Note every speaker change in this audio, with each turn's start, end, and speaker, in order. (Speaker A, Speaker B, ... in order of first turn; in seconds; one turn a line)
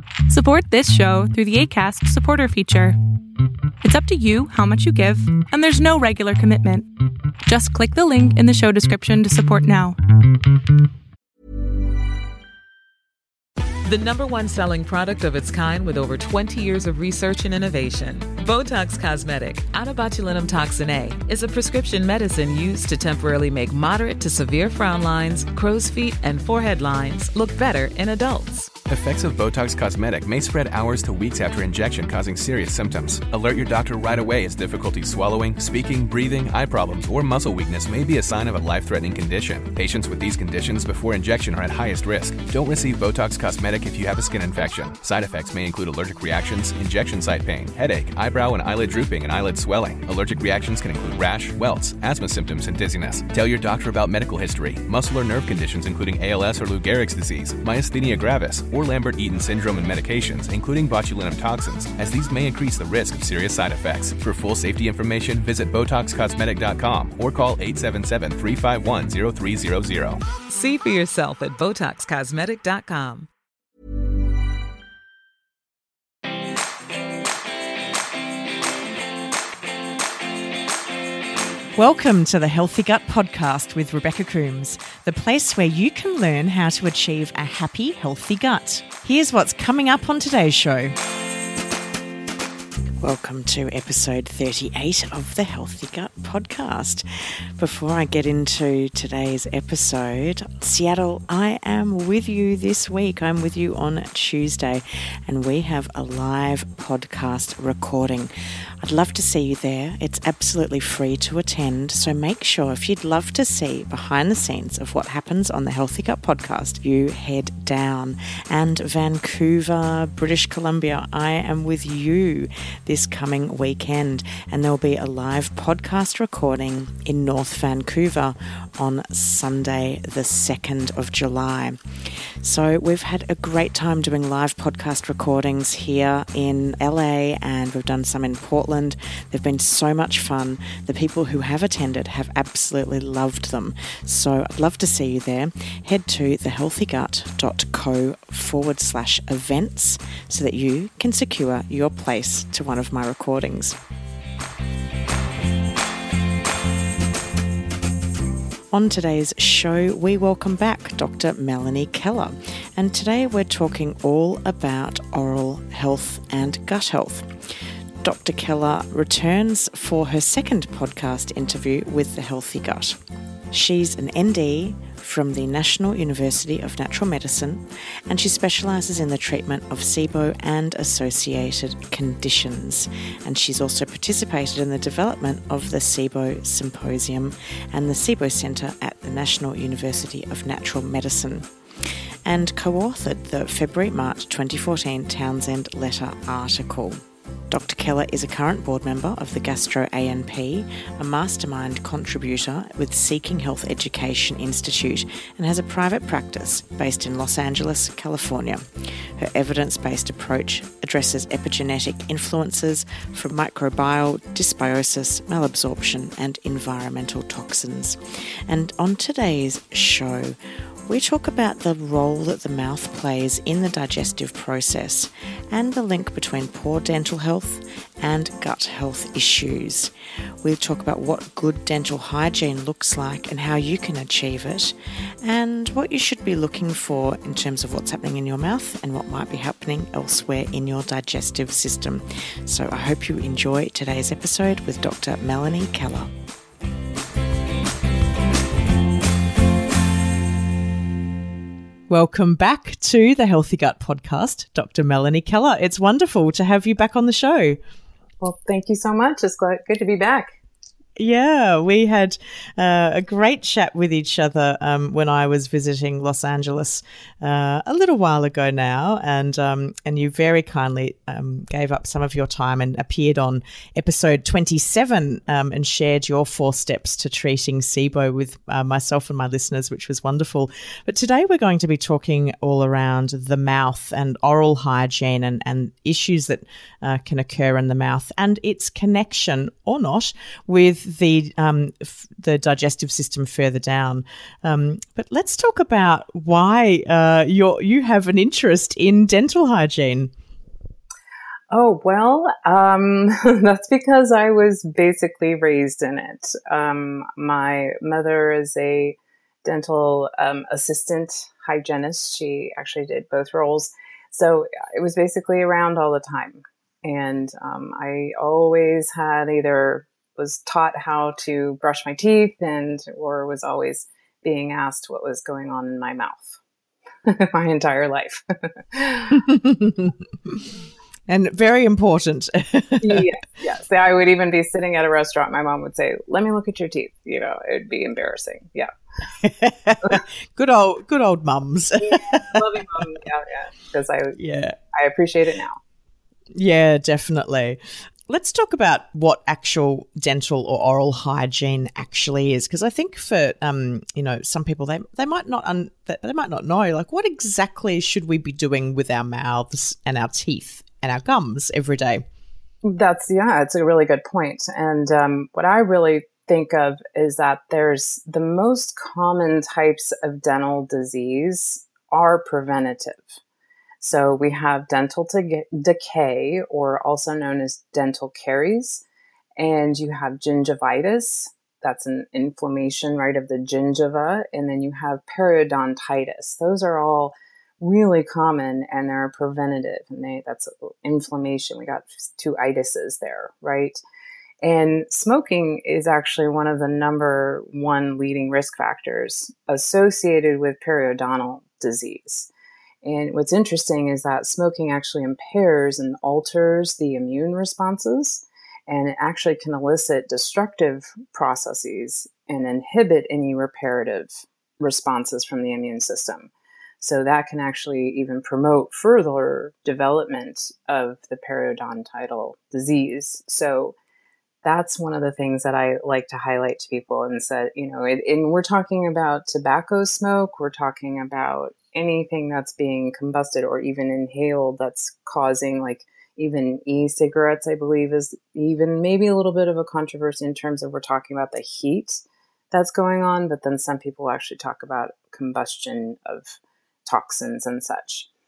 Speaker A: 0.3-3.0
Speaker A: 3.8-6.9
Speaker A: 7.5-10.0
Speaker B: 13.8-28.7
Speaker C: 28.9-70.2
Speaker B: 70.5-73.3
Speaker D: 81.8-91.0
Speaker D: 93.0-153.8
Speaker D: 158.7-173.0
Speaker D: 173.5-220.4
Speaker D: 220.9-246.1
Speaker D: 251.9-257.6
Speaker E: 258.2-260.4
Speaker D: 261.0-300.1
Speaker E: 301.5-326.4
Speaker E: 327.1-329.2
Speaker D: 329.1-330.4
Speaker D: 331.1-333.1
Speaker E: 332.8-338.7
Speaker D: 339.2-342.9
Speaker E: 341.8-344.2
Speaker D: 344.2-344.6
Speaker E: 344.7-345.6
Speaker D: 346.3-362.0
Speaker E: 362.6-373.2
Speaker E: 373.8-378.8
Speaker E: 379.4-393.8
Speaker E: 394.4-402.3
Speaker E: 402.8-423.8
Speaker E: 424.4-448.1